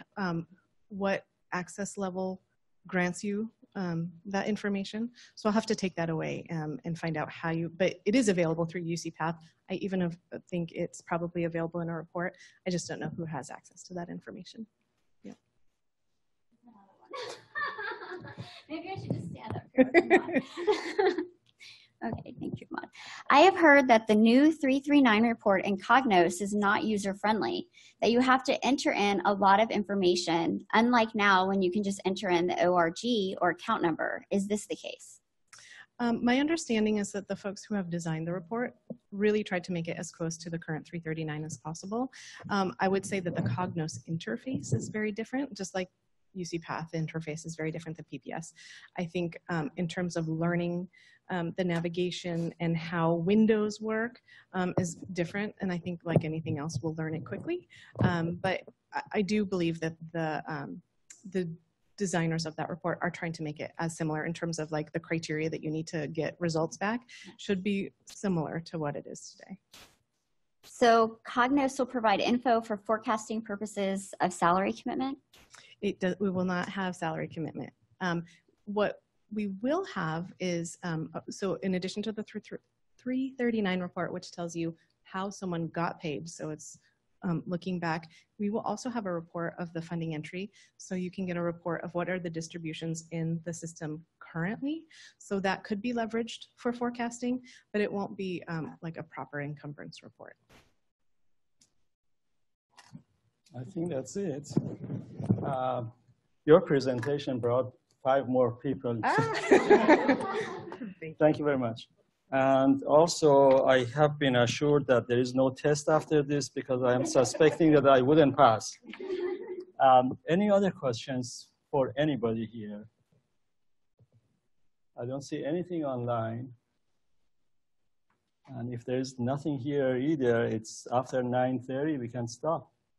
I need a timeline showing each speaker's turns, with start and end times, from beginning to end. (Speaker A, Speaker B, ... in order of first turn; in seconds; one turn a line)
Speaker A: 0.2-14.7
Speaker B: 17.1-21.2
Speaker B: 22.0-35.2
Speaker A: 36.0-69.6
Speaker B: 70.7-75.2
Speaker A: 75.8-100.4
Speaker C: 103.5-105.9
Speaker C: 106.5-110.2
Speaker A: 109.2-109.6
Speaker C: 111.2-118.8
Speaker C: 119.8-122.9
Speaker C: 125.0-126.5
Speaker C: 128.5-132.7